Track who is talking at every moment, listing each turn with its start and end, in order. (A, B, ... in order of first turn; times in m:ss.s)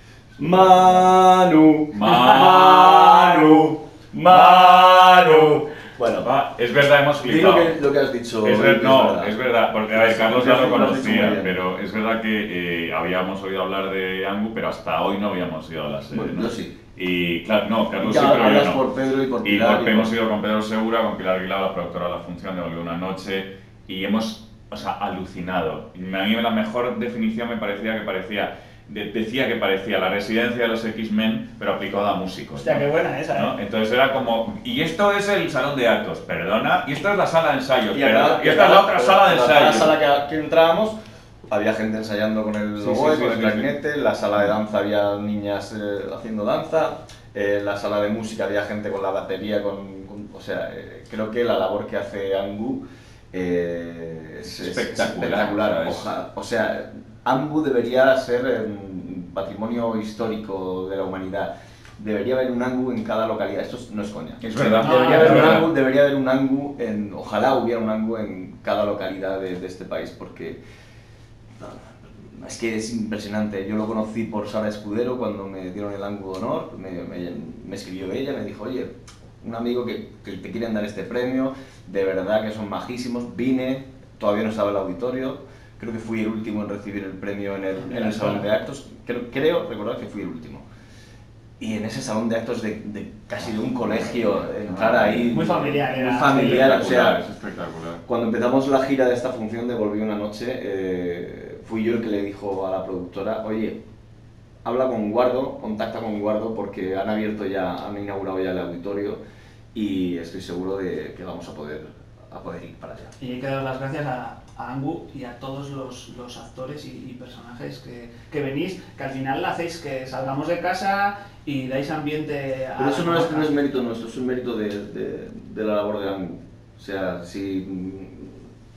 0:00.4-0:01.1 A
0:00.4-0:06.3 B
0:01.9-0:03.5 A
0:04.3-0:05.3 A
0:06.2-0:07.8 A
0:07.2-0:09.3 B
0:08.4-0:18.8 A
0:09.9-0:11.6 B
0:16.1-0:16.8 B
0:18.0-0:20.1 B
0:19.4-0:40.0 A
0:32.6-0:33.5 C
0:37.9-0:41.0 B
0:41.5-1:10.6 B
0:42.8-0:43.7 A
0:54.4-0:56.1 A
1:04.4-1:05.7 A
1:04.8-1:05.7 C
1:11.6-1:30.6 B
1:27.9-1:28.4 C
1:31.6-1:37.2 B
1:33.7-1:35.4 A
1:35.3-1:36.9 C
1:36.5-1:38.0 A
1:38.1-1:43.8 B
1:44.6-1:49.2 B
1:49.7-1:53.1 B
1:53.2-2:03.5 C
2:02.8-2:08.4 B